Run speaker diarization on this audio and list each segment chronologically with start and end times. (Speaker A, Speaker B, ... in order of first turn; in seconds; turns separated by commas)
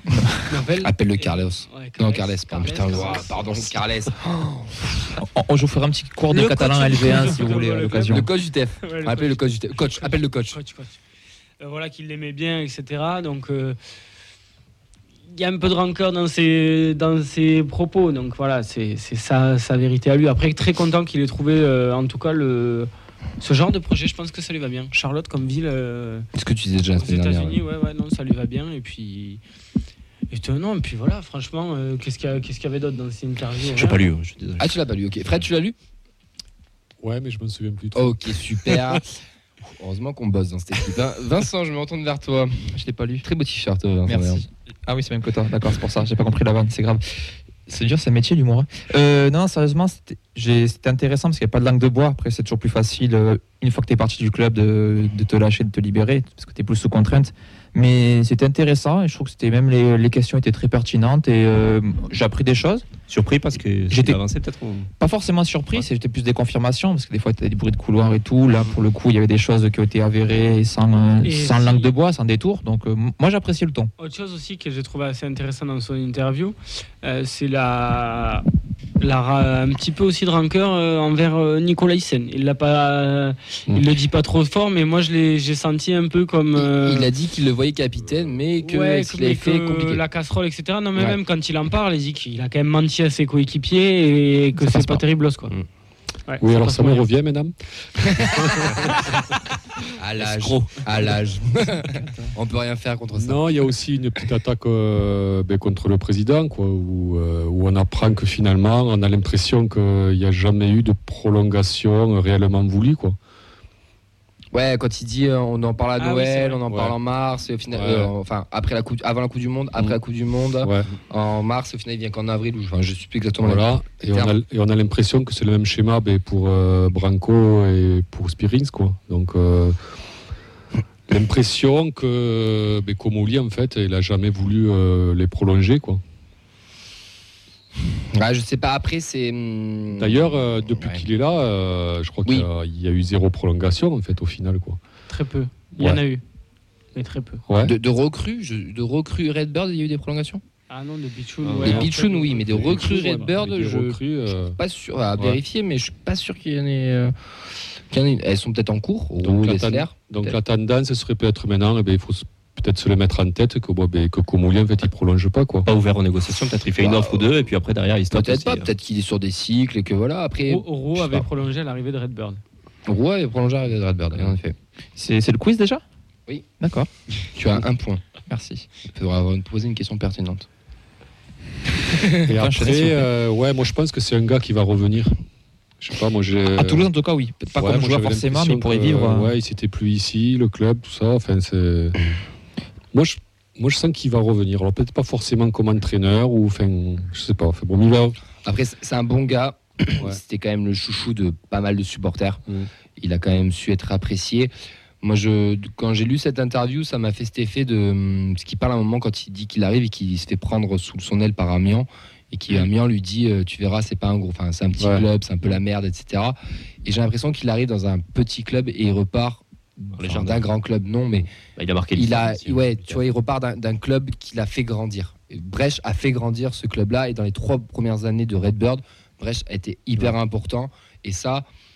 Speaker A: 0.4-3.7, Speaker B: 0.8-4.9, Speaker C: 5.2-8.3, Speaker A: 6.3-8.3, Speaker B: 8.1-10.6, Speaker A: 8.8-11.0, Speaker A: 11.6-13.8, Speaker A: 15.3-26.2, Speaker B: 26.3-27.6, Speaker A: 27.0-29.4, Speaker A: 30.3-34.0, Speaker D: 33.7-34.7, Speaker B: 34.6-35.7, Speaker E: 37.0-38.3, Speaker B: 37.9-39.1, Speaker B: 39.6-44.4, Speaker C: 42.7-43.3, Speaker C: 44.0-47.0, Speaker C: 47.6-62.9, Speaker D: 63.1-64.9, Speaker C: 63.9-64.2, Speaker C: 65.0-73.9, Speaker A: 71.2-71.9, Speaker A: 74.0-78.4, Speaker A: 79.0-87.1, Speaker B: 86.6-90.0, Speaker A: 88.6-95.5, Speaker C: 94.5-95.0, Speaker A: 96.3-97.1, Speaker E: 96.4-97.5, Speaker B: 98.0-98.8, Speaker E: 98.4-98.8, Speaker B: 100.0-103.6, Speaker D: 100.2-100.7, Speaker E: 103.1-113.2, Speaker B: 114.5-124.3, Speaker A: 116.0-116.6, Speaker E: 116.7-116.9, Speaker E: 117.7-118.1, Speaker E: 120.6-120.9, Speaker E: 123.4-129.8, Speaker E: 131.1-136.0, Speaker B: 138.1-141.1, Speaker E: 140.0-144.8, Speaker A: 145.1-146.2, Speaker A: 146.9-147.4, Speaker E: 147.5-147.7, Speaker B: 147.6-150.4, Speaker A: 150.7-152.8, Speaker D: 151.4-151.8, Speaker B: 151.6-157.1, Speaker E: 152.4-154.6, Speaker B: 157.9-160.3, Speaker E: 159.2-165.7, Speaker D: 165.7-168.7, Speaker B: 166.8-167.3, Speaker B: 168.1-171.2, Speaker A: 170.4-172.4, Speaker B: 172.8-174.5, Speaker C: 174.9-175.8, Speaker C: 176.6-176.9, Speaker B: 177.3-178.0, Speaker C: 178.3-178.7, Speaker B: 178.8-180.4, Speaker B: 181.9-182.2, Speaker E: 182.3-185.2, Speaker C: 182.4-183.1, Speaker E: 185.8-186.9, Speaker C: 186.5-189.3, Speaker E: 187.6-192.0, Speaker E: 192.9-198.2, Speaker B: 198.4-202.4, Speaker B: 203.0-204.5, Speaker B: 205.0-221.3, Speaker E: 214.8-215.0, Speaker D: 219.9-220.5, Speaker D: 221.5-223.0, Speaker B: 221.9-231.4